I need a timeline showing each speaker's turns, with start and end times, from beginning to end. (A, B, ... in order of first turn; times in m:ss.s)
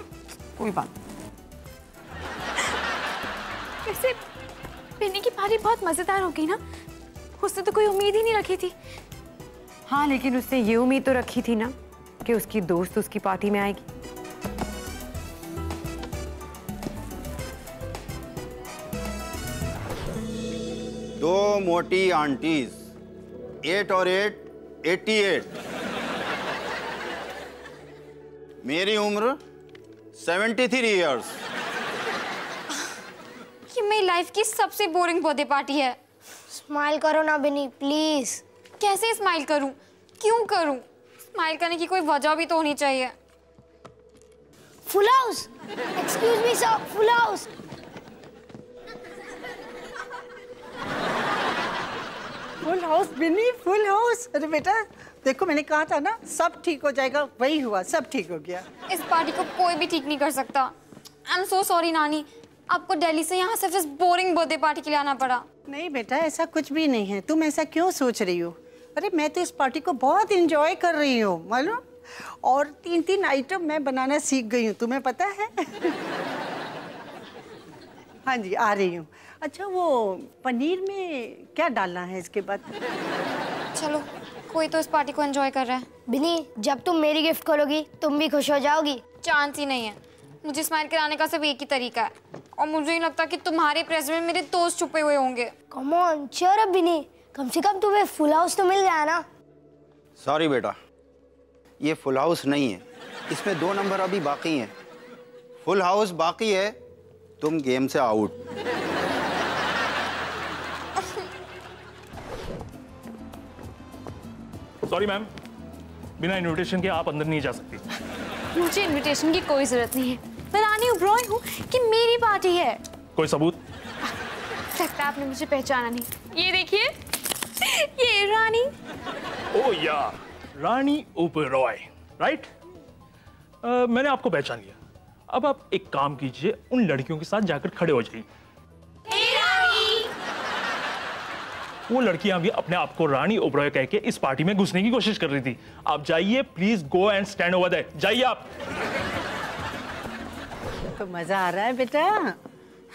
0:00.6-0:00.9 A
0:03.8-0:04.2 B
0:05.0-0:06.6 B
0:07.4-0:08.7 B
0:09.9-0:13.9 A
0:21.2-0:22.9 C
0:23.6-0:25.6 C
0:28.6-0:29.4 C
0:30.2-0:31.4 C
0:33.7-0:36.0 D
0:36.5-0:38.4 E
0:38.8-0:40.8 D
0:41.3-0:43.1 D
0:44.9-0:47.5 E
0:52.6-0:58.6 F
0:58.9-1:00.7 D
1:01.3-1:05.4 D
1:05.7-1:16.0 F
1:18.3-1:22.7 F
1:23.8-1:25.9 D
1:26.1-1:29.0 E
1:29.2-1:35.5 D
1:35.7-1:39.2 E
1:40.2-1:40.8 C
1:41.8-1:44.7 C
1:45.6-1:46.8 C
1:47.4-1:48.4 C
1:54.9-1:55.3 G
1:56.2-1:57.8 G
1:58.5-2:02.8 B
2:03.2-2:03.6 G
2:04.7-2:06.9 B
2:07.6-2:08.7 B
2:09.5-2:12.5 G
2:13.6-2:14.8 G
2:15.3-2:18.3 G
2:19.1-2:20.1 B
2:19.2-2:19.5 D
2:21.9-2:28.5 G
2:31.0-2:32.4 F